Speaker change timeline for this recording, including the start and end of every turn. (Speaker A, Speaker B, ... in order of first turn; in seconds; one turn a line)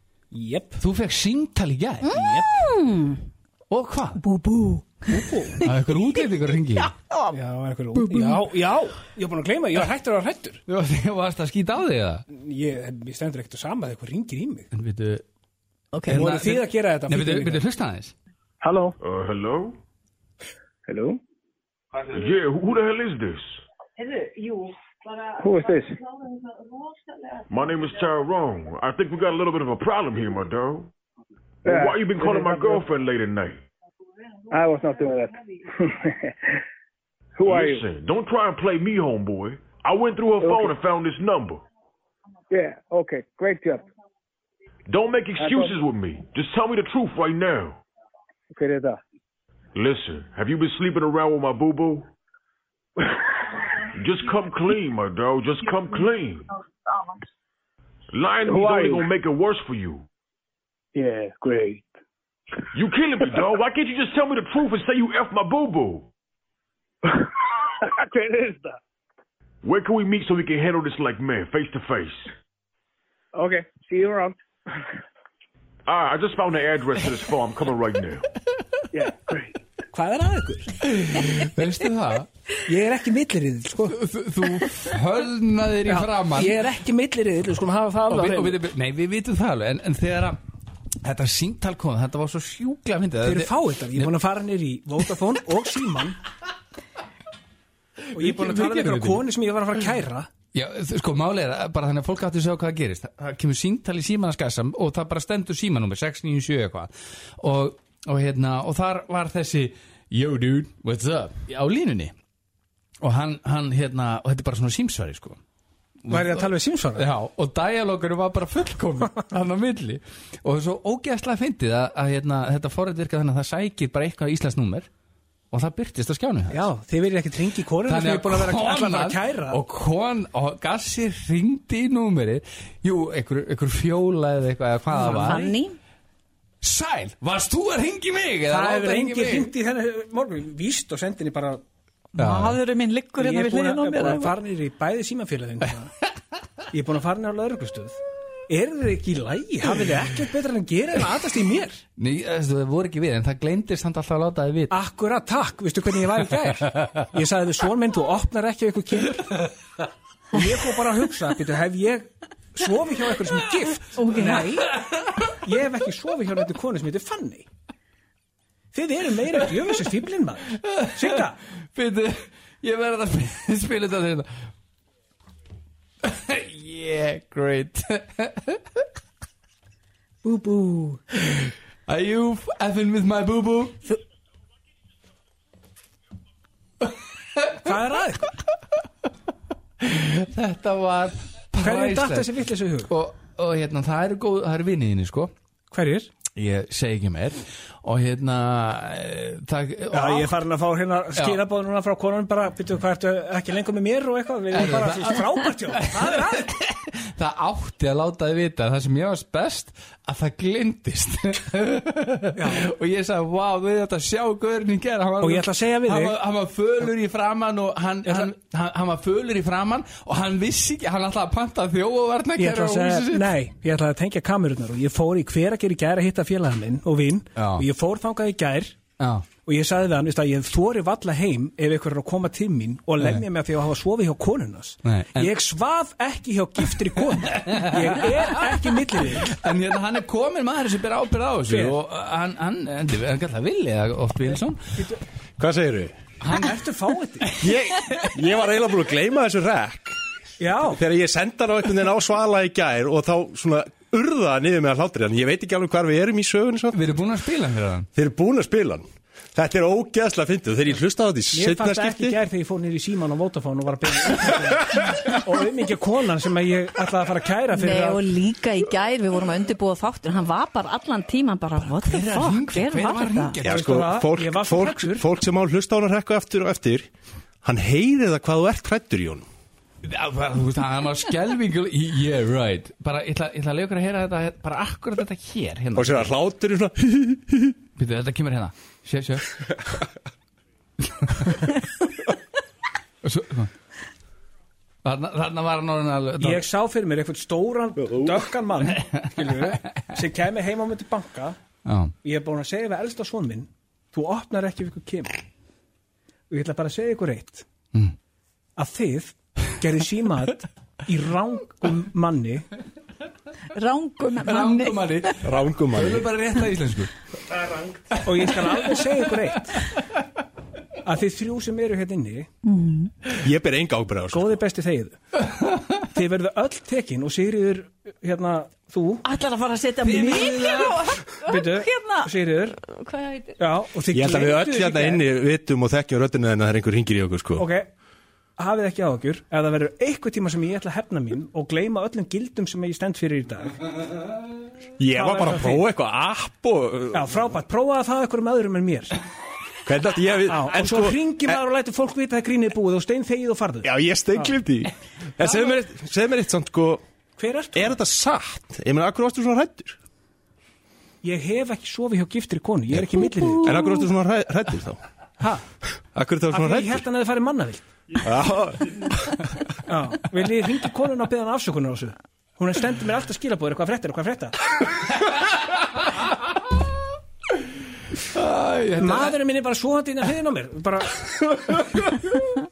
Speaker A: 0.3-0.8
Speaker B: 0.8-2.2
Speaker C: 2.0-3.2
Speaker A: 2.1-2.6
Speaker B: 3.7-4.2
Speaker C: 4.2-5.9
Speaker A: 5.1-5.6
Speaker B: 5.6-6.9
Speaker C: 6.8-7.3
Speaker A: 7.3-10.6
Speaker C: 8.0-8.4
Speaker B: 10.7-12.2
Speaker A: 12.3-14.7
Speaker B: 14.7-15.2
Speaker C: 15.9-16.3
Speaker A: 16.1-17.6
Speaker B: 16.1-18.1
Speaker D: 19.0-19.8
Speaker A: 20.9-21.2
Speaker D: 22.0-23.6
Speaker A: 25.4-25.9
Speaker D: 27.5-30.9
Speaker D: 31.6-33.6
Speaker E: 31.6-32.8
Speaker E: 34.5-36.3
Speaker E: 37.4-37.8
Speaker D: 37.4-41.6
Speaker E: 40.4-40.7
Speaker E: 42.5-43.8
Speaker D: 44.9-47.8
Speaker E: 45.5-45.7
Speaker E: 48.5-49.0
Speaker D: 49.7-52.0
Speaker D: 53.9-56.5
Speaker D: 58.1-60.0
Speaker E: 58.5-59.0
Speaker E: 60.9-61.8
Speaker D: 62.7-66.1
Speaker E: 67.8-68.7
Speaker D: 69.6-72.3
Speaker E: 73.3-74.3
Speaker D: 75.9-78.3
Speaker E: 78.9-79.5
Speaker A: 79.9-80.8
Speaker B: 80.8-82.3
Speaker A: 82.7-84.0
Speaker B: 83.9-86.6
Speaker A: 85.8-88.6
Speaker B: 88.1-90.4
Speaker B: 91.0-94.1
Speaker A: 93.2-96.2
Speaker B: 98.1-99.2
Speaker A: 98.1-100.3
Speaker B: 100.5-112.1
Speaker B: 113.0-115.4
Speaker B: 116.0-124.9
Speaker A: 116.1-117.0
Speaker B: 125.5-126.7
Speaker A: 126.5-129.6
Speaker B: 127.8-135.5
Speaker C: 134.9-135.8
Speaker A: 135.0-135.5
Speaker B: 136.6-139.5
Speaker A: 138.5-141.6
Speaker C: 142.1-144.3
Speaker B: 142.2-142.6
Speaker A: 143.2-145.9
Speaker A: 146.7-151.8
Speaker B: 152.0-154.7
Speaker A: 154.7-159.5
Speaker A: 160.3-167.4
Speaker C: 163.9-164.6
Speaker A: 168.7-171.4
Speaker B: 170.6-174.3
Speaker B: 176.0-178.6
Speaker A: 180.2-181.0
Speaker B: 181.3-183.8
Speaker A: 187.6-188.3
Speaker B: 189.8-192.3
Speaker A: 191.6-192.9
Speaker B: 192.9-195.3
Speaker A: 195.7-196.1
Speaker B: 196.3-200.4
Speaker A: 199.9-206.5
Speaker B: 201.2-201.4
Speaker B: 204.5-223.3
Speaker A: 212.3-212.6
Speaker A: 215.2-216.2
Speaker A: 218.1-218.3
Speaker A: 222.4-228.8
Speaker B: 227.3-227.7
Speaker B: 229.0-229.3
Speaker A: 229.4-239.3
Speaker B: 234.8-235.3
Speaker B: 237.3-238.5
Speaker B: 239.1-244.6
Speaker A: 241.5-241.8
Speaker F: 245.4-245.9
Speaker B: 246.2-246.6
Speaker A: 246.3-247.3
Speaker F: 247.4-249.9
Speaker A: 250.4-250.8
Speaker F: 250.7-256.8
Speaker B: 256.7-257.9
Speaker F: 257.9-262.2
Speaker A: 261.3-268.1
Speaker C: 267.5-273.4
Speaker B: 271.7-273.6
Speaker F: 273.4-276.9
Speaker A: 273.4-275.1
Speaker F: 277.4-279.2
Speaker B: 279.8-286.1
Speaker F: 285.7-287.6
Speaker B: 287.8-289.3
Speaker B: 293.0-293.5
Speaker B: 294.8-296.4
Speaker A: 296.2-301.4
Speaker F: 297.8-298.2
Speaker B: 301.6-301.9
Speaker A: 302.0-305.1
Speaker A: 306.3-307.4
Speaker A: 308.6-312.5
Speaker C: 313.5-315.2
Speaker B: 314.2-316.9
Speaker F: 315.2-316.1
Speaker A: 317.3-319.6
Speaker A: 320.8-322.3
Speaker C: 322.4-322.9
Speaker F: 323.1-324.3
Speaker A: 324.1-325.0
Speaker A: 325.8-329.0
Speaker C: 329.0-333.4
Speaker B: 329.8-330.9
Speaker A: 331.2-332.6
Speaker A: 333.4-335.0
Speaker F: 333.9-337.4
Speaker A: 337.4-337.7
Speaker A: 338.4-343.7
Speaker F: 344.8-347.2
Speaker A: 344.9-345.6
Speaker A: 346.9-349.0
Speaker F: 349.6-351.4
Speaker A: 350.3-354.3
Speaker F: 353.6-356.8
Speaker A: 357.2-357.8
Speaker F: 357.5-359.8
Speaker A: 361.0-363.7
Speaker F: 362.7-364.8
Speaker F: 365.9-366.8
Speaker A: 366.3-367.7
Speaker F: 368.0-369.2
Speaker A: 369.7-374.4
Speaker B: 378.0-379.2
Speaker A: 378.8-381.3
Speaker F: 381.5-382.1